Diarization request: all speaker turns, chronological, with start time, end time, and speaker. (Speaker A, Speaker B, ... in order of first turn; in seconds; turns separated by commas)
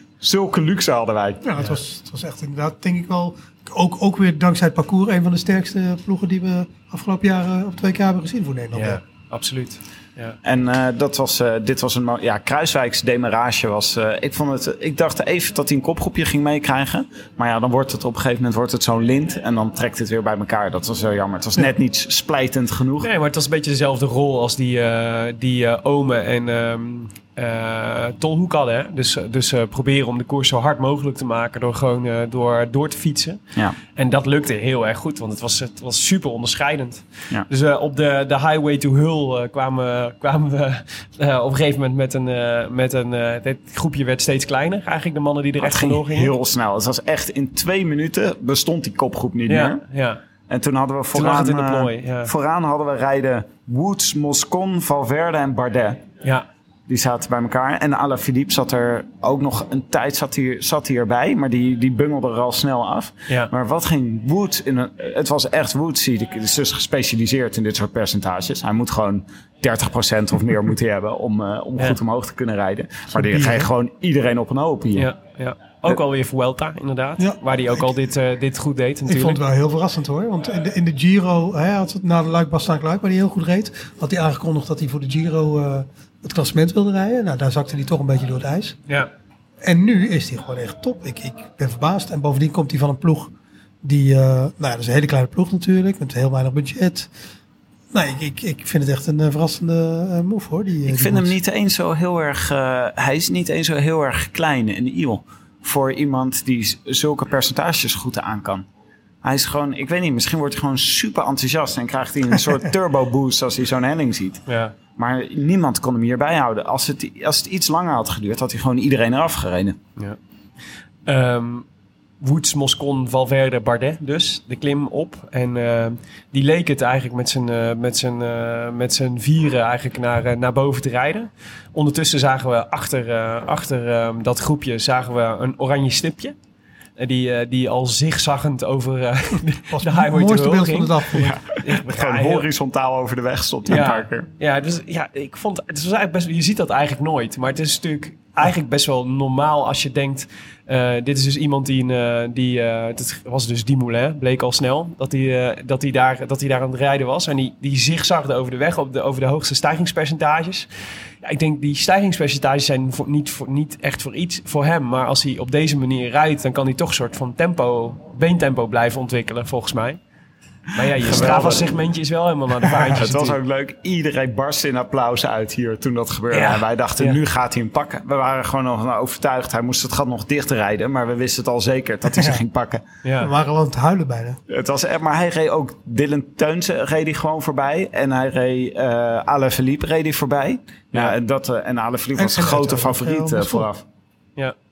Speaker A: 0.2-1.4, Speaker B: 1.4-9.0, Speaker C: 8.7-10.4, Speaker A: 10.4-23.1, Speaker C: 23.0-33.4, Speaker C: 33.9-46.3, Speaker A: 45.6-49.8, Speaker C: 49.5-50.2, Speaker A: 50.5-56.0, Speaker C: 51.1-52.3, Speaker A: 56.9-75.1, Speaker B: 73.1-73.7, Speaker C: 75.0-79.4, Speaker B: 77.2-77.9, Speaker B: 79.0-88.8, Speaker B: 89.6-97.1, Speaker B: 97.9-101.3, Speaker A: 100.8-108.7, Speaker A: 109.2-114.4, Speaker C: 114.5-114.7, Speaker A: 115.0-119.8, Speaker C: 121.1-121.6, Speaker C: 122.2-136.3, Speaker C: 137.0-142.5, Speaker B: 139.7-141.4, Speaker A: 141.1-144.3, Speaker C: 143.7-160.7, Speaker C: 161.2-170.0, Speaker C: 170.7-173.4, Speaker A: 171.0-171.7, Speaker A: 172.9-182.8, Speaker C: 176.3-177.2, Speaker B: 182.1-182.4, Speaker C: 183.0-183.3, Speaker B: 183.2-184.4, Speaker A: 184.5-193.8, Speaker B: 192.2-193.7